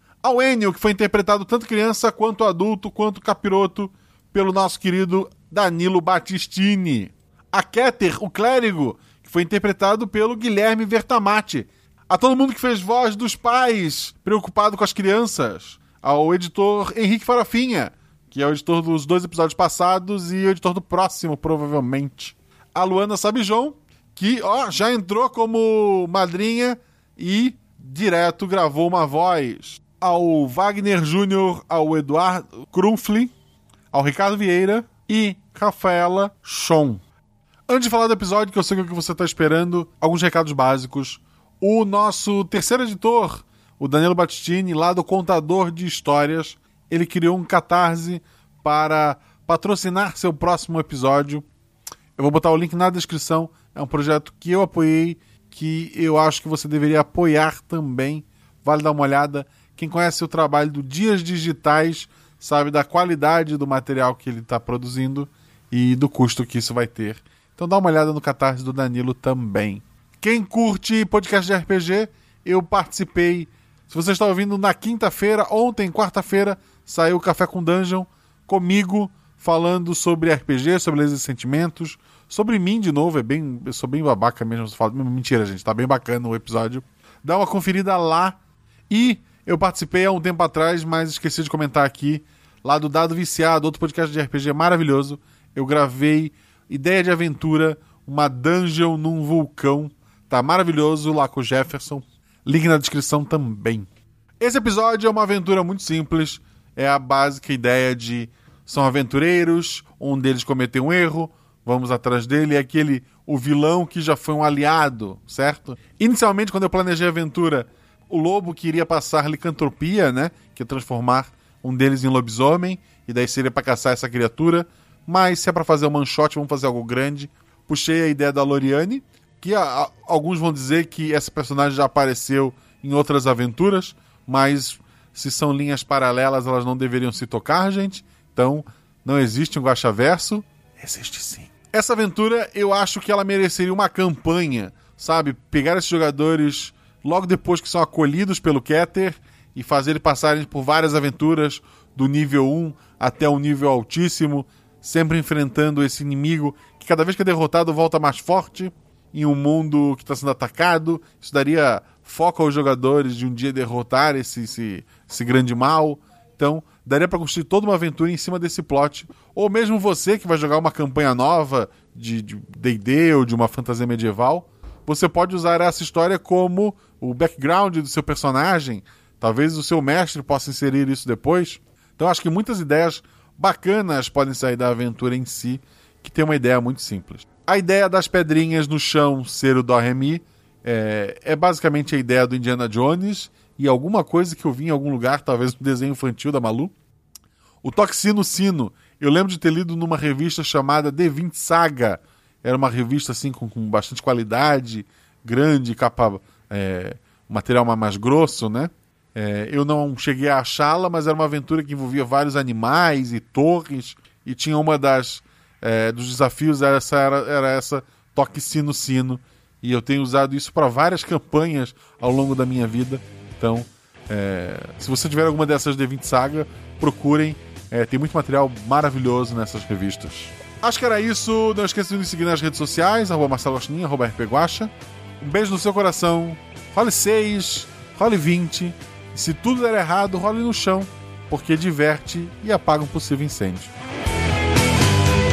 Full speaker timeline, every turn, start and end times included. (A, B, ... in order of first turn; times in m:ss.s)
0:00.2-0:33.3 A
0:33.9-0:37.0 A
0:37.7-0:51.4 A
0:52.2-1:28.4 A
1:28.9-1:43.9 A
1:44.4-3:16.7 A
3:17.6-4:03.7 A